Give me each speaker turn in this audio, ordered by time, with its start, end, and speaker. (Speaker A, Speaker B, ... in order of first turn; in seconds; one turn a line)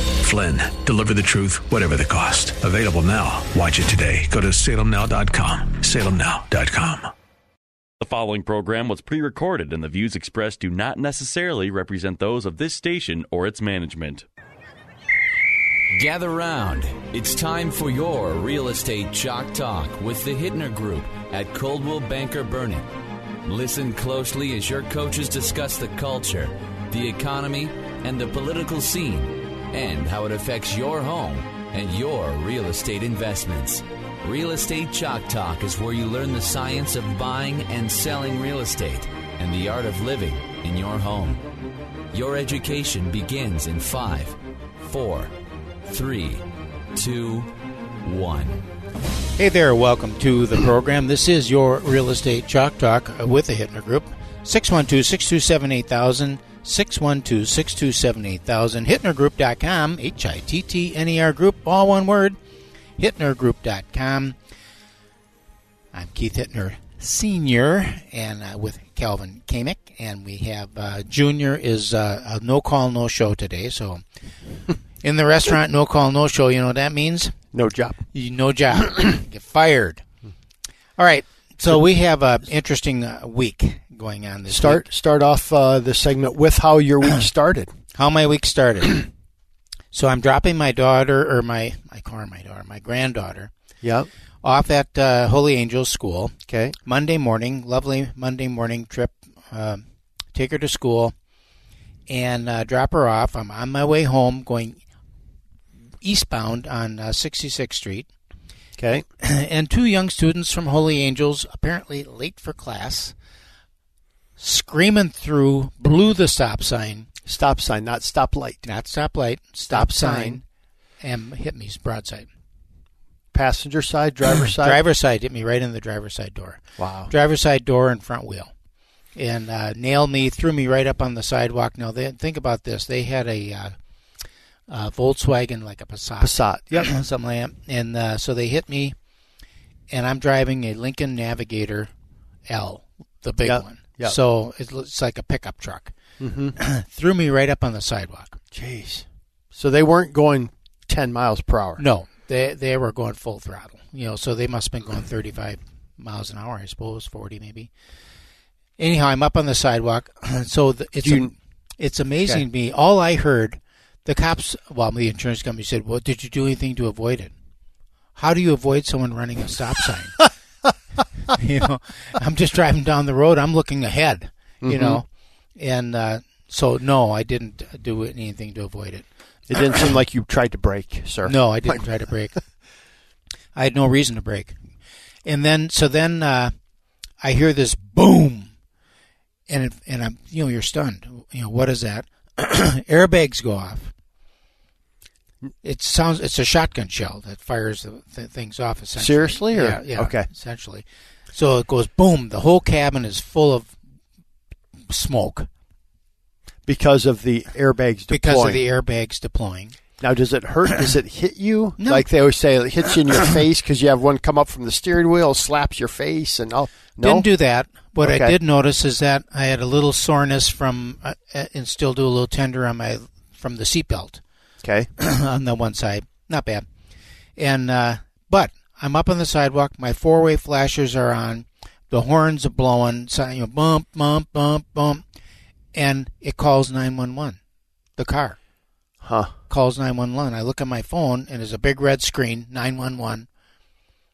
Speaker A: 0.2-7.1
Speaker B: 8.0-14.2
Speaker C: 15.9-22.9
Speaker C: 23.5-41.4
Speaker C: 42.1-45.3
Speaker C: 45.9-46.4
Speaker C: 47.0-47.5
Speaker C: 48.0-48.6
Speaker D: 49.4-62.4
Speaker D: 63.0-64.4
Speaker D: 65.9-74.0
Speaker D: 75.0-77.3
Speaker E: 77.5-78.0
Speaker D: 78.1-80.0
Speaker D: 81.0-84.8
Speaker E: 84.5-87.7
Speaker D: 87.9-89.1
Speaker D: 89.9-93.5
Speaker E: 93.8-94.1
Speaker D: 94.4-101.1
Speaker E: 96.5-96.8
Speaker D: 102.1-104.8
Speaker D: 106.0-108.1
Speaker E: 108.8-109.0
Speaker D: 109.2-113.1
Speaker D: 114.4-117.1
Speaker E: 117.3-118.6
Speaker D: 118.6-120.5
Speaker E: 119.7-120.4
Speaker D: 121.0-122.3
Speaker E: 123.3-124.8
Speaker D: 124.6-128.5
Speaker E: 126.8-127.1
Speaker D: 129.2-133.7
Speaker D: 134.7-138.9
Speaker E: 136.2-136.9
Speaker D: 139.9-141.9
Speaker D: 142.5-145.9
Speaker E: 143.4-144.2
Speaker E: 146.2-146.6
Speaker D: 146.6-148.4
Speaker E: 148.5-151.8
Speaker D: 151.8-157.7
Speaker D: 158.8-167.3
Speaker E: 161.0-161.3
Speaker D: 168.2-170.2
Speaker D: 171.3-179.1
Speaker E: 174.6-175.0
Speaker E: 179.5-181.8
Speaker D: 181.2-182.4
Speaker D: 183.5-184.6
Speaker D: 185.2-186.5
Speaker D: 187.2-188.5
Speaker D: 189.5-193.9
Speaker D: 195.6-203.8
Speaker E: 199.0-200.3
Speaker D: 204.9-205.5
Speaker E: 206.7-208.6
Speaker D: 208.1-209.8
Speaker E: 210.0-217.3
Speaker D: 211.8-212.1
Speaker D: 217.0-224.2
Speaker E: 218.0-218.3
Speaker E: 224.6-224.9
Speaker D: 225.0-226.6
Speaker D: 227.4-235.0
Speaker D: 235.7-237.4
Speaker D: 238.0-238.4
Speaker E: 239.0-239.3
Speaker D: 239.5-243.3